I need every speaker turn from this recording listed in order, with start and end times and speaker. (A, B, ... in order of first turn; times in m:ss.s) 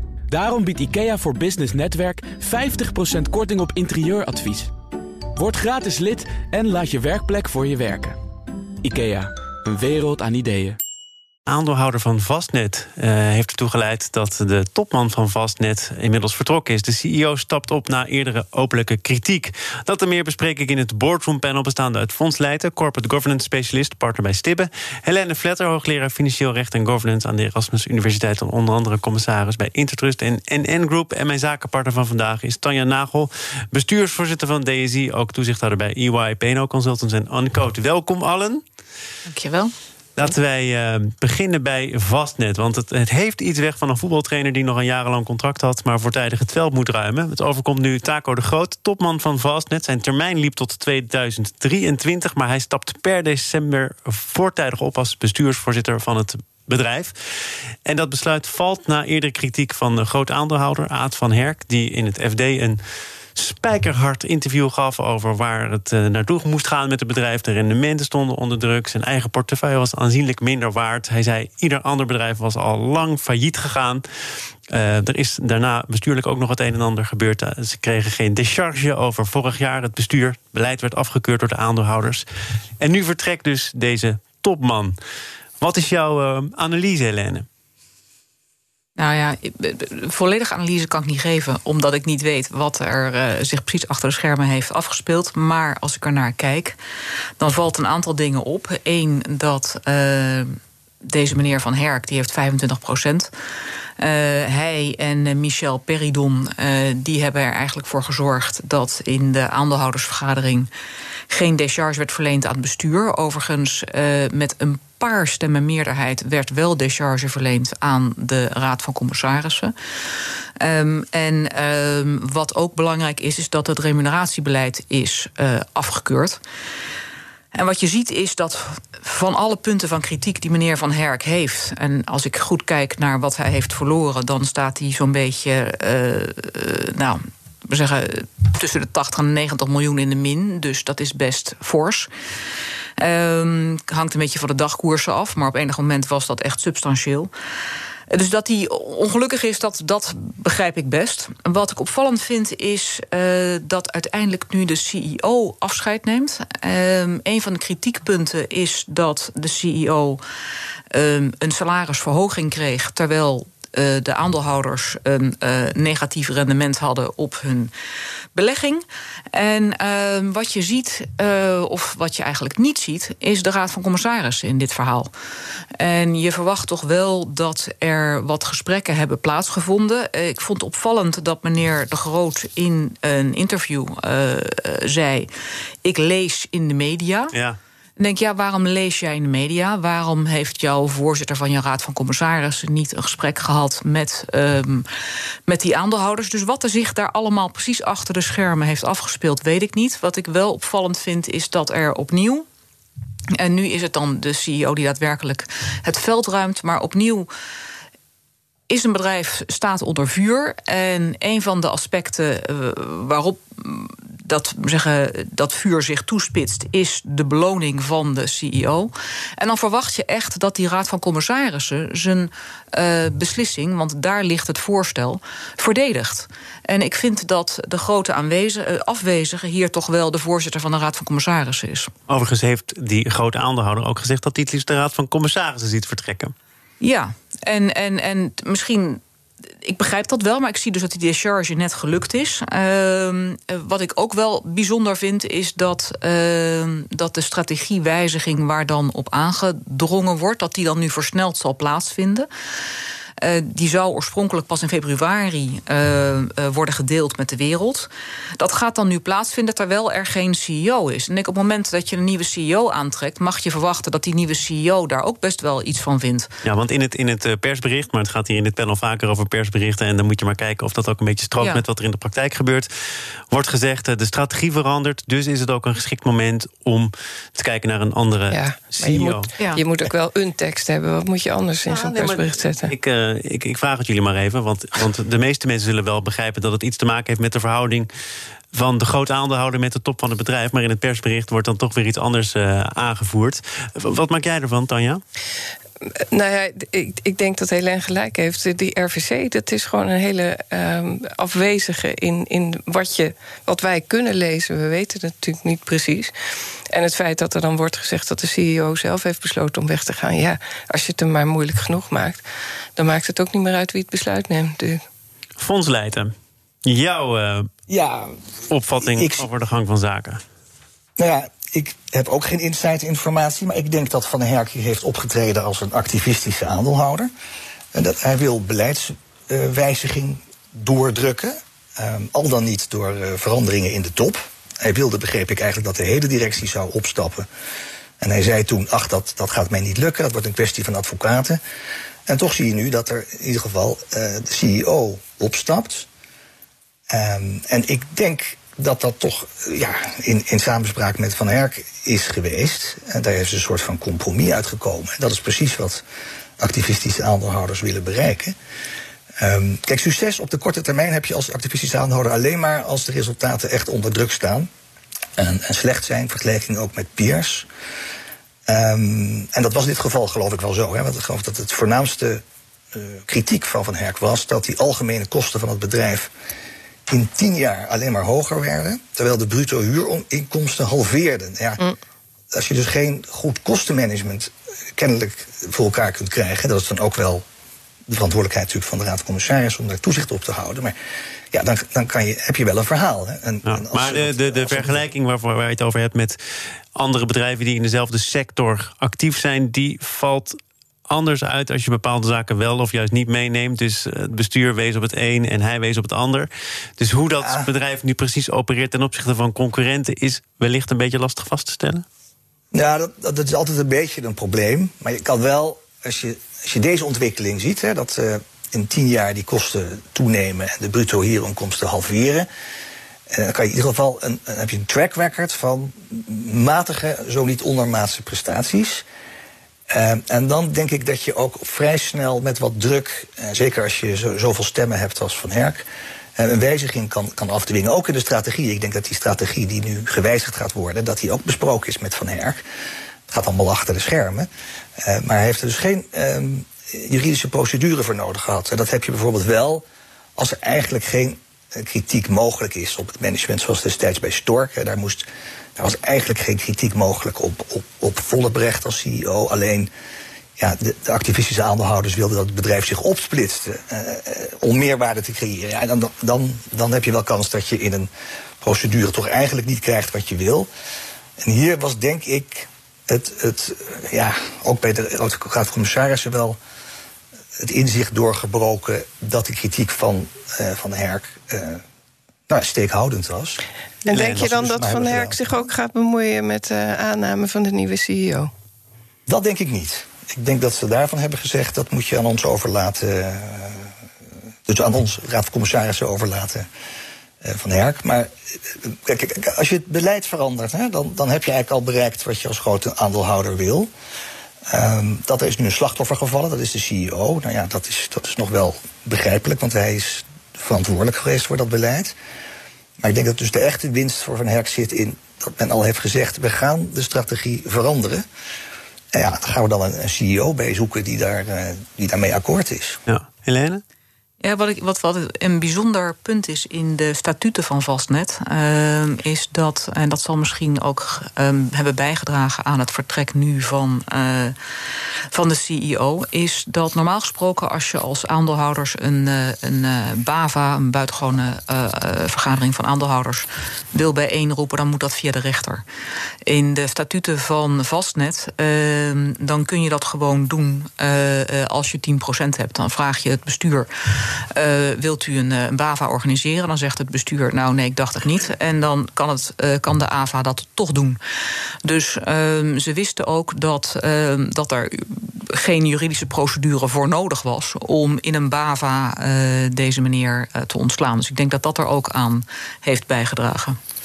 0:00.3-0:04.7 A
0:05.4-0:08.2 A
0:08.8-0:10.8 A
0:11.5-0:38.6 B
0:39.3-0:39.7 C
0:40.2-0:57.1 B
0:57.8-1:02.8 B
1:03.4-1:14.0 B
1:14.7-1:22.3 B
1:22.8-1:25.0 B
1:25.6-1:27.5 B
1:29.0-1:36.8 C
1:37.4-1:43.3 C
1:44.0-1:50.7 C
1:51.3-1:59.7 C
2:00.6-2:06.4 C
2:07.5-2:22.1 C
2:23.0-2:27.3 C
2:28.1-2:40.2 C
2:40.9-2:47.7 C
2:48.4-2:55.1 C
2:55.8-3:05.3 C
3:05.8-3:07.3 C
3:07.3-3:07.6 B
3:08.0-3:14.9 C
3:15.5-3:22.4 C
3:23.3-3:27.3 C
3:28.7-3:51.9 C
3:52.1-3:56.3 B
3:56.8-3:59.0 C
3:59.6-4:12.3 C
4:13.2-4:26.3 C
4:26.4-4:32.7 B
4:33.3-4:39.3 B
4:38.3-4:42.7 D
4:41.7-4:47.9 B
4:48.5-4:55.0 B
4:56.1-5:06.1 D
5:06.7-5:12.2 D
5:12.8-5:14.8 D
5:15.4-5:16.1 B
5:16.6-5:17.5 B
5:17.7-5:18.2 E
5:18.5-5:20.2 B
5:18.8-5:19.3 E
5:21.0-5:27.1 E
5:27.7-5:37.3 E
5:38.0-5:41.4 E
5:42.1-5:45.9 E
5:46.9-5:55.8 E
5:56.4-5:58.4 E
5:59.2-6:04.5 E
6:05.2-6:07.5 E
6:08.5-6:16.1 E
6:16.9-6:21.6 E
6:22.3-6:27.2 E
6:27.9-6:30.8 E
6:31.3-6:34.8 E
6:33.5-6:36.2 B
6:36.8-6:51.8 B
6:47.2-6:47.5 E
6:52.5-7:02.3 E
7:03.1-7:08.8 E
7:09.7-7:15.6 E
7:16.2-7:22.4 E
7:23.1-7:29.6 E
7:30.2-7:39.7 E
7:40.4-7:47.9 E
7:48.4-7:50.5 E
7:51.2-7:56.4 E
7:57.4-8:01.6 E
8:02.3-8:03.4 E
8:03.9-8:08.3 D
8:03.9-8:04.3 B
8:04.0-8:05.2 E
8:09.1-8:13.7 E
8:14.5-8:16.5 E
8:17.2-8:23.7 E
8:24.5-8:32.0 E
8:32.8-8:38.0 E
8:38.9-8:42.8 E
8:42.9-8:43.6 B
8:44.2-8:54.4 C
8:55.1-9:05.6 C
9:06.2-9:21.0 C
9:21.6-9:33.6 C